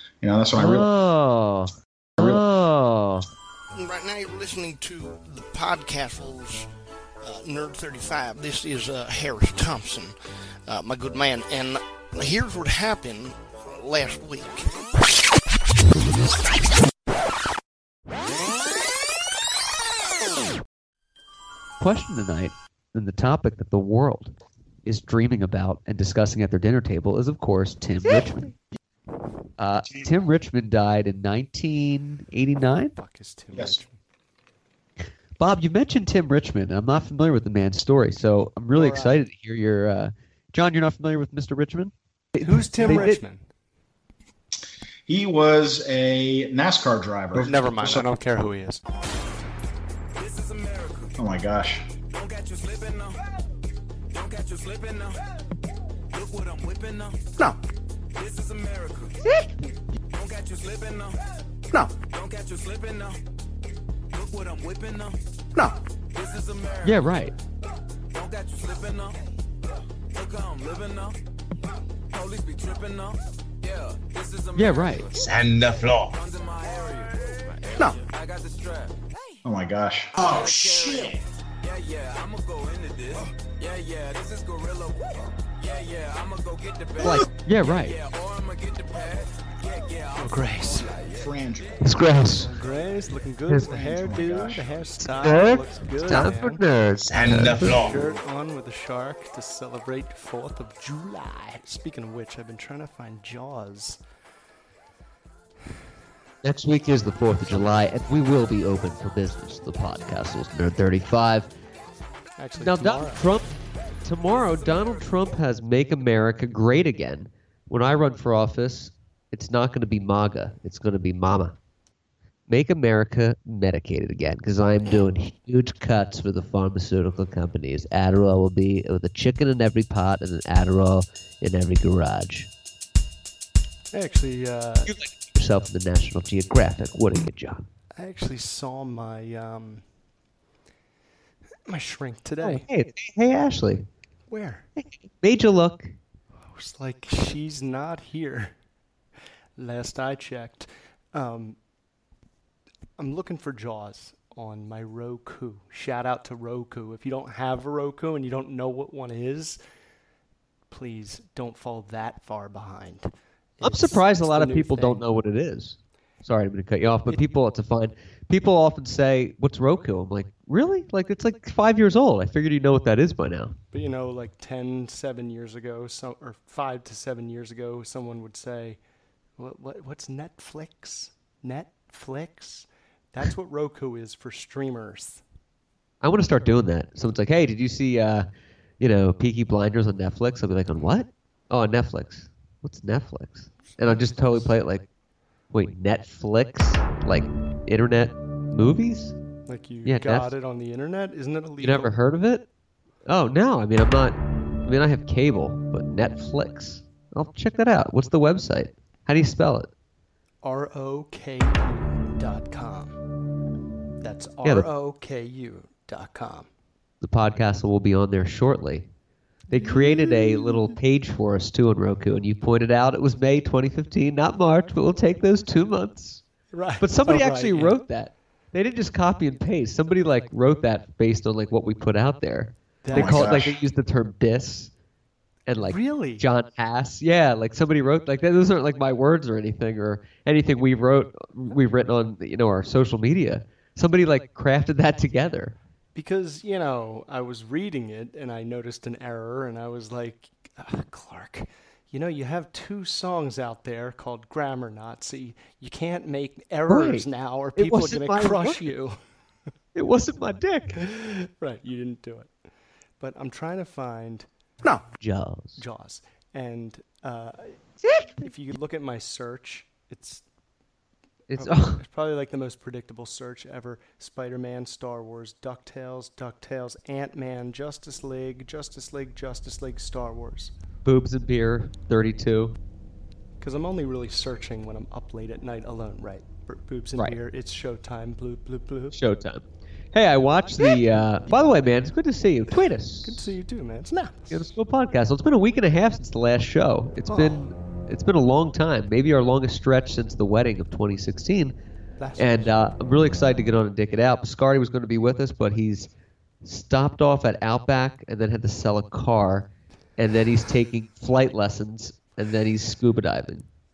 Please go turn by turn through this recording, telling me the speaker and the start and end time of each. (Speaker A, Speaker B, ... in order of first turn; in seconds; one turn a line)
Speaker A: 0.2-0.9
Speaker B: 0.6-3.3
Speaker A: 2.2-2.5
Speaker C: 3.7-6.7
Speaker C: 7.2-10.2
Speaker C: 10.7-14.7
Speaker B: 21.8-24.3
Speaker B: 24.8-28.5
Speaker B: 29.6-32.9
Speaker D: 32.9-33.9
Speaker B: 35.4-43.2
Speaker D: 38.7-39.2
Speaker D: 42.4-43.4
Speaker A: 45.1-48.1
Speaker D: 47.4-48.8
Speaker E: 50.2-51.2
Speaker A: 51.2-51.9
Speaker E: 52.1-53.2
Speaker E: 54.1-55.2
Speaker E: 56.1-57.3
Speaker E: 58.1-59.2
Speaker E: 60.1-61.2
Speaker E: 61.9-63.2
Speaker E: 64.1-65.2
Speaker E: 66.1-67.2
Speaker B: 66.8-67.3
Speaker E: 68.1-69.2
Speaker E: 70.1-71.2
Speaker E: 72.1-75.2
Speaker B: 74.6-75.1
Speaker F: 75.1-76.2
Speaker E: 76.1-79.0
Speaker A: 79.4-80.8
Speaker E: 80.2-91.8
Speaker B: 87.0-88.0
Speaker D: 90.2-91.0
Speaker A: 91.1-92.0
Speaker B: 91.8-92.5
Speaker D: 92.3-96.6
Speaker A: 93.6-94.7
Speaker B: 95.0-98.0
Speaker F: 97.0-98.2
Speaker D: 97.2-104.0
Speaker B: 106.4-111.5
Speaker D: 112.4-113.3
Speaker B: 112.6-121.5
Speaker B: 122.5-132.5
Speaker D: 133.9-134.9
Speaker B: 134.8-137.6
Speaker D: 138.0-139.8
Speaker D: 141.7-142.7
Speaker B: 142.4-143.8
Speaker D: 144.3-144.7
Speaker B: 144.8-145.9
Speaker D: 146.5-148.5
Speaker D: 149.6-151.6
Speaker D: 153.0-159.6
Speaker D: 160.7-165.0
Speaker B: 163.6-173.6
Speaker D: 173.7-178.8
Speaker D: 179.4-185.2
Speaker B: 186.0-188.3
Speaker B: 188.8-194.8
Speaker D: 193.7-194.5
Speaker B: 195.5-199.1
Speaker D: 199.4-201.9
Speaker B: 199.8-200.3
Speaker B: 201.6-202.4
Speaker B: 203.1-209.7
Speaker D: 210.4-213.0
Speaker D: 214.0-216.5
Speaker B: 217.0-218.9
Speaker D: 219.5-220.8
Speaker B: 219.5-226.2
Speaker D: 226.5-227.8
Speaker B: 226.8-234.7
Speaker D: 232.8-233.3
Speaker A: 232.9-233.6
Speaker B: 235.5-245.6
Speaker D: 235.6-236.2
Speaker D: 245.9-259.0
Speaker B: 256.7-258.7
Speaker B: 259.8-260.8
Speaker D: 260.7-262.3
Speaker D: 263.0-264.3
Speaker B: 265.0-265.6
Speaker D: 265.6-267.6
Speaker B: 267.8-268.3
Speaker D: 268.2-270.2
Speaker B: 271.3-271.8
Speaker D: 271.4-280.5
Speaker B: 280.9-282.6
Speaker D: 283.4-289.0
Speaker B: 288.9-293.3
Speaker D: 293.0-294.5
Speaker B: 294.3-301.6
Speaker D: 297.1-297.5
Speaker D: 302.0-302.5
Speaker B: 302.2-305.9
Speaker B: 306.4-313.5